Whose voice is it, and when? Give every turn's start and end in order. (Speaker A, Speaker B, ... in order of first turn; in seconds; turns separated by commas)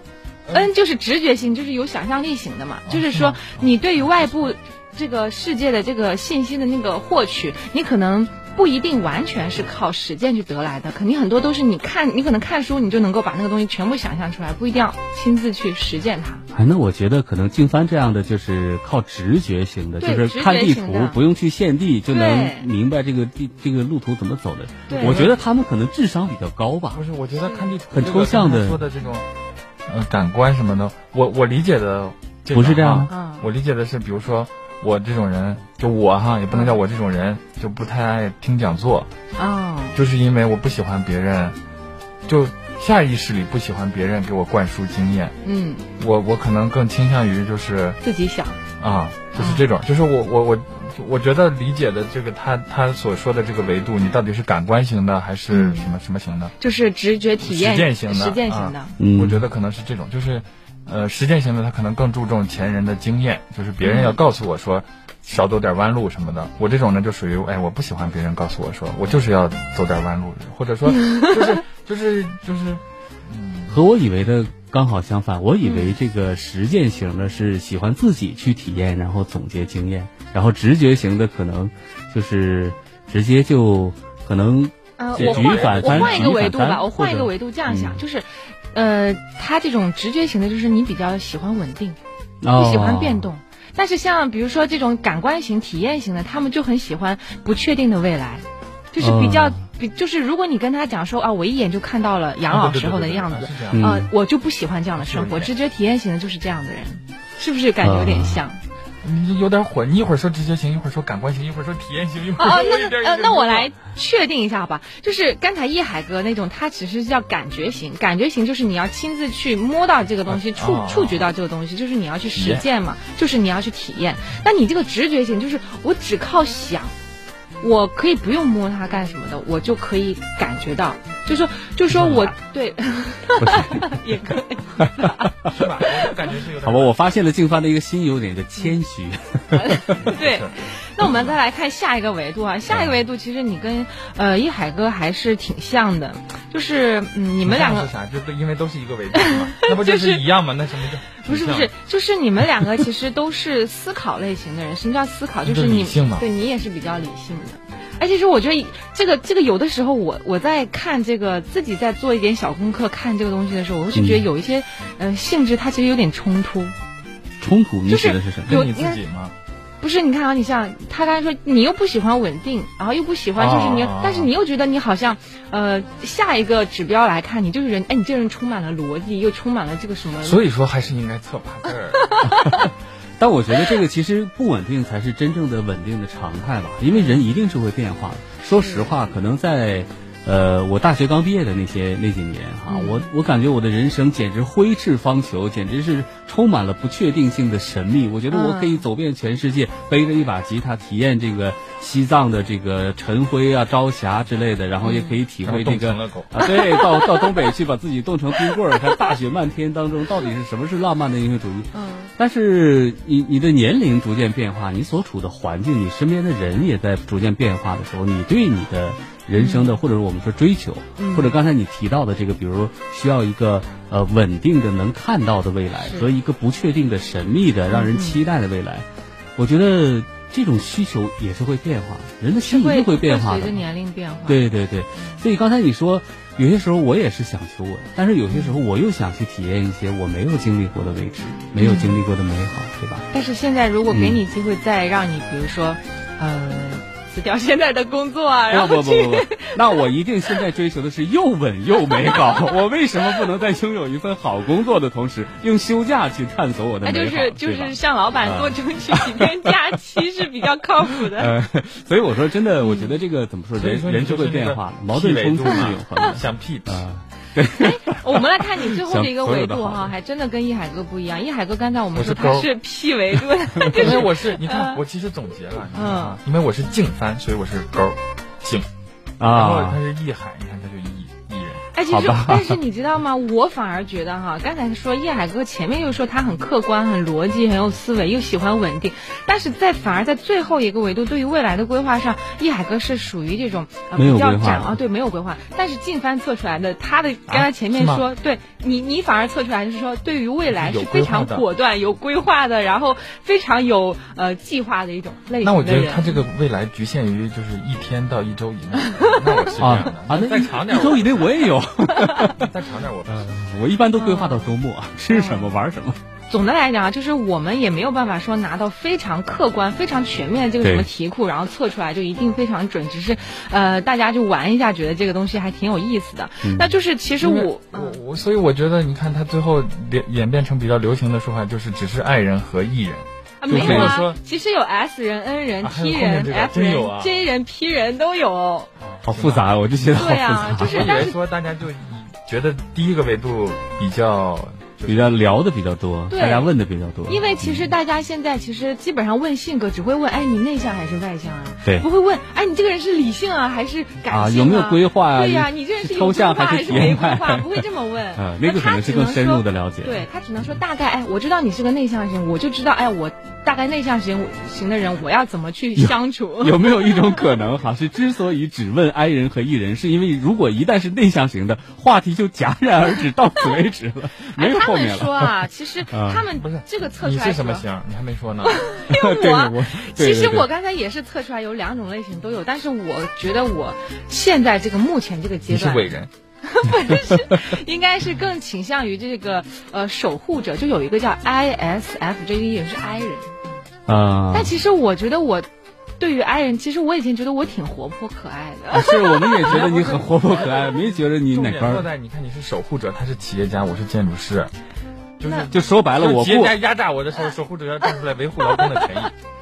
Speaker A: 0.5-16.4, Speaker B: 2.9-3.7, Speaker C: 16.5-27.0, Speaker A: 20.0-21.2, Speaker A: 22.1-22.7, Speaker A: 24.9-25.3, Speaker B: 24.9-25.4, Speaker B: 26.9-29.2, Speaker C: 27.9-28.8, Speaker B: 29.9-39.1, Speaker C: 32.5-33.1, Speaker A: 33.1-33.5, Speaker A: 39.4-40.0, Speaker B: 39.9-41.6, Speaker B: 42.2-45.4, Speaker A: 45.4-45.9, Speaker B: 46.0-48.0, Speaker A: 48.0-48.6, Speaker B: 48.8-56.5, Speaker A: 49.4-49.6, Speaker A: 55.5-55.9, Speaker A: 56.6-58.9, Speaker B: 57.4-73.8, Speaker C: 59.0-59.4, Speaker A: 63.8-64.2, Speaker A: 71.0-71.3, Speaker C: 73.7-88.0, Speaker A: 75.6-76.0, Speaker A: 85.0-92.0, Speaker B: 85.1-86.4, Speaker C: 92.4-93.3, Speaker A: 92.5-108.6, Speaker C: 99.0-99.6, Speaker B: 102.5-103.9, Speaker C: 103.7-104.1, Speaker B: 105.0-105.5, Speaker C: 107.8-108.4, Speaker B: 109.0-113.7, Speaker A: 112.4-126.9, Speaker B: 120.3-121.3, Speaker B: 122.3-122.6, Speaker A: 127.6-135.3, Speaker C: 131.9-132.3, Speaker C: 133.4-134.0, Speaker C: 134.8-135.6, Speaker B: 135.5-136.9, Speaker C: 136.6-140.1, Speaker A: 139.5-147.9, Speaker B: 140.0-140.6, Speaker B: 147.4-151.7, Speaker A: 149.2-150.2, Speaker A: 151.2-166.7, Speaker B: 155.4-156.3, Speaker C: 163.9-164.3, Speaker C: 167.4-168.6, Speaker A: 167.9-169.0, Speaker B: 168.4-169.3, Speaker A: 169.8-180.4, Speaker B: 173.4-174.3, Speaker B: 180.2-182.1, Speaker A: 182.0-182.7, Speaker C: 182.2-228.8, Speaker A: 186.9-187.2, Speaker A: 188.5-188.9, Speaker A: 192.7-193.1, Speaker A: 198.3-198.8, Speaker A: 204.8-205.2, Speaker B: 205.4-206.3, Speaker A: 206.4-207.5, Speaker A: 208.4-209.0, Speaker A: 211.7-212.1, Speaker A: 219.3-219.8, Speaker A: 221.0-221.4, Speaker A: 225.8-226.1, Speaker A: 227.7-228.2, Speaker C: 229.4-233.6, Speaker A: 232.4-234.4, Speaker C: 234.3-243.1, Speaker A: 234.9-235.2, Speaker A: 238.3-238.6, Speaker A: 241.6-242.0, Speaker A: 243.1-250.4, Speaker C: 243.9-244.2, Speaker C: 248.5-259.5, Speaker A: 251.8-253.2, Speaker A: 256.8-261.3, Speaker C: 261.0-269.9, Speaker A: 262.6-263.0, Speaker B: 263.6-266.8, Speaker A: 265.5-266.1, Speaker A: 267.5-274.8, Speaker B: 271.9-272.5, Speaker C: 273.6-274.0, Speaker B: 273.7-278.7, Speaker A: 275.7-276.2, Speaker C: 279.2-279.8, Speaker B: 279.3-281.6, Speaker A: 281.7-306.2, Speaker C: 281.9-282.6, Speaker C: 293.9-294.8, Speaker B: 297.3-298.1, Speaker B: 300.5-301.4, Speaker B: 305.4-311.5, Speaker A: 308.9-309.5, Speaker C: 309.6-312.5, Speaker A: 312.0-312.3, Speaker B: 312.4-313.3, Speaker C: 313.1-316.0, Speaker A: 313.9-314.5, Speaker A: 315.1-315.6, Speaker A: 316.3-328.0, Speaker C: 320.6-320.9, Speaker C: 326.4-326.7, Speaker B: 327.2-334.2, Speaker A: 333.4-338.7, Speaker C: 333.5-334.0, Speaker B: 335.6-337.1, Speaker B: 339.0-339.5, Speaker C: 339.0-341.0, Speaker A: 339.9-341.2, Speaker B: 340.6-345.2, Speaker C: 344.9-347.7, Speaker A: 346.1-346.5, Speaker A: 347.1-367.2, Speaker C: 354.1-357.6, Speaker C: 358.2-360.0, Speaker C: 365.8-376.2, Speaker A: 374.4-377.6, Speaker B: 376.4-378.7, Speaker A: 378.4-385.9, Speaker C: 378.8-380.5, Speaker B: 385.5-386.1, Speaker A: 386.4-393.3, Speaker C: 393.9-394.5, Speaker A: 394.3-395.5, Speaker A: 396.0-399.6, Speaker C: 398.7-401.9, Speaker B: 399.4-404.5, Speaker B: 405.2-409.1, Speaker A: 405.2-405.5, Speaker C: 405.5-406.6